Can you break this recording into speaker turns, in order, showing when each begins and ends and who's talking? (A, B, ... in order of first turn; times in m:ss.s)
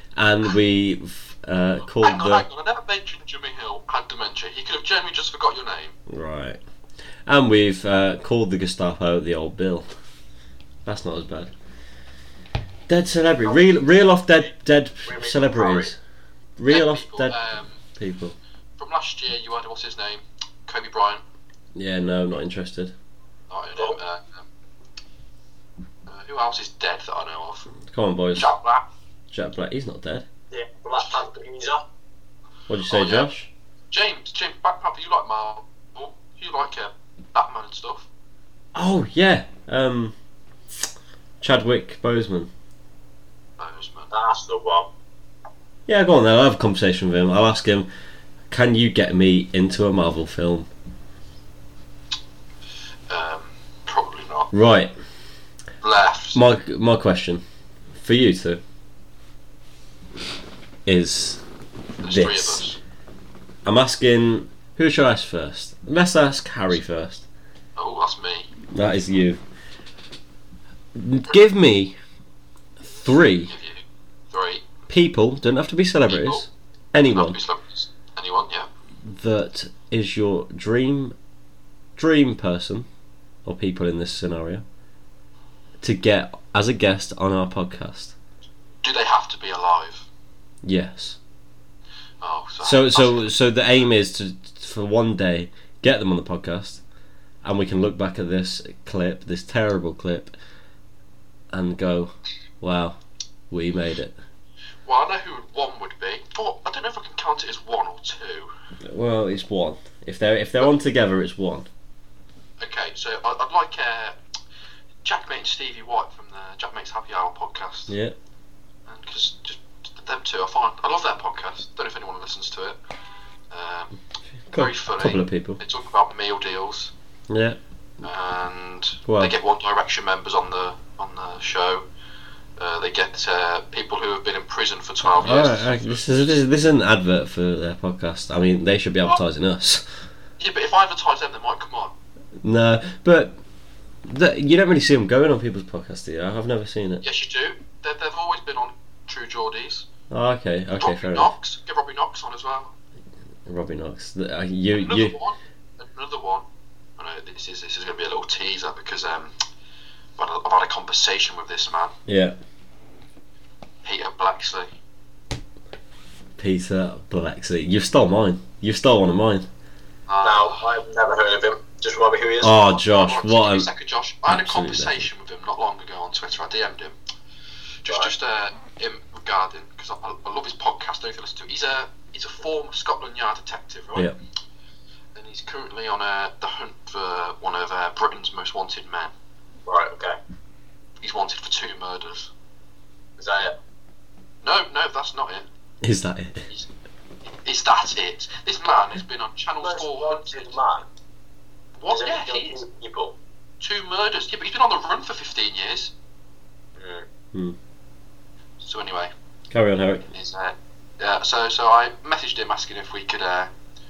0:00.2-0:02.4 A
0:02.0-0:06.0 B
0:06.1-0:06.6 A
0:07.2-0:09.9 A
0:10.8-0:11.5 A
0:12.9-0:16.0 A
0:15.0-0:15.9 C
0:16.6-0:17.4 A
0:16.7-0:17.8 B
0:17.9-0:18.4 A
0:18.8-0:21.2 B
0:21.7-0:22.9 A
0:23.5-0:24.4 B
0:26.0-0:27.7 B
0:27.8-0:28.5 A
0:28.4-0:28.8 B
0:29.3-0:30.2 A
0:30.5-0:31.8 C
0:32.7-0:33.5 A
0:32.9-0:33.3 B
0:33.9-0:38.1 B
0:38.7-0:40.1 A
0:41.4-0:42.5 A
0:43.6-0:44.1 B
0:44.1-0:44.9 C
0:45.9-0:47.9 A
0:48.5-0:50.7 A
0:53.1-0:54.5 B
0:54.5-0:54.9 A
0:55.8-0:56.4 B
0:56.3-0:57.4 A
0:58.0-0:58.6 A
1:00.8-1:01.4 A
1:02.0-1:02.8 B
1:02.0-1:02.6 A
1:03.6-1:07.2 A
1:07.8-1:08.5 B
1:08.7-1:09.4 A
1:10.9-1:12.0 A
1:12.8-1:13.5 A
1:13.5-1:14.7 B
1:14.9-1:17.4 A
1:16.1-1:16.4 B
1:17.1-1:18.7 B
1:19.0-1:21.1 A
1:22.0-1:22.9 A
1:23.4-1:24.6 A
1:25.8-1:28.1 A
1:28.8-1:30.1 B
1:30.6-1:31.2 A
1:32.2-1:33.3 B
1:32.6-1:36.8 A
1:37.4-1:40.3 A
1:41.5-1:43.0 A
1:43.5-1:44.2 A
1:44.8-1:48.5 B
1:48.8-1:51.7 A
1:52.6-1:54.2 B
1:55.0-1:57.9 B
1:57.9-1:58.1 A
1:58.9-2:02.8 B
2:03.5-2:03.9 B
2:04.5-2:05.6 A
2:04.5-2:06.9 B
2:07.3-2:07.6 A
2:08.0-2:11.8 B
2:09.1-2:09.3 A
2:12.6-2:16.4 B
2:15.1-2:19.8 A
2:20.4-2:21.9 B
2:22.4-2:23.4 A
2:24.0-2:27.0 A
2:27.0-2:29.9 B
2:30.1-2:31.3 A
2:30.8-2:32.7 B
2:33.4-2:35.2 A
2:34.8-2:36.4 B
2:37.0-2:39.3 B
2:40.2-2:41.9 B
2:42.1-2:42.4 A
2:43.8-2:44.7 B
2:46.4-2:49.5 A
2:50.1-2:50.7 B
2:50.2-2:52.7 C
2:52.4-2:53.7 A
2:52.8-2:57.0 B
2:54.2-2:55.1 A
2:57.8-3:04.1 B
3:05.1-3:09.1 B
3:09.6-3:10.2 C
3:11.0-3:12.3 B
3:13.2-3:13.5 C
3:14.4-3:15.4 B
3:15.8-3:16.4 A
3:17.3-3:20.6 B
3:19.6-3:20.9 C
3:21.8-3:22.6 B
3:21.9-3:23.2 C
3:23.6-3:25.9 B
3:26.8-3:27.0 C
3:28.6-3:29.1 B
3:29.5-3:30.1 A
3:30.1-3:33.5 B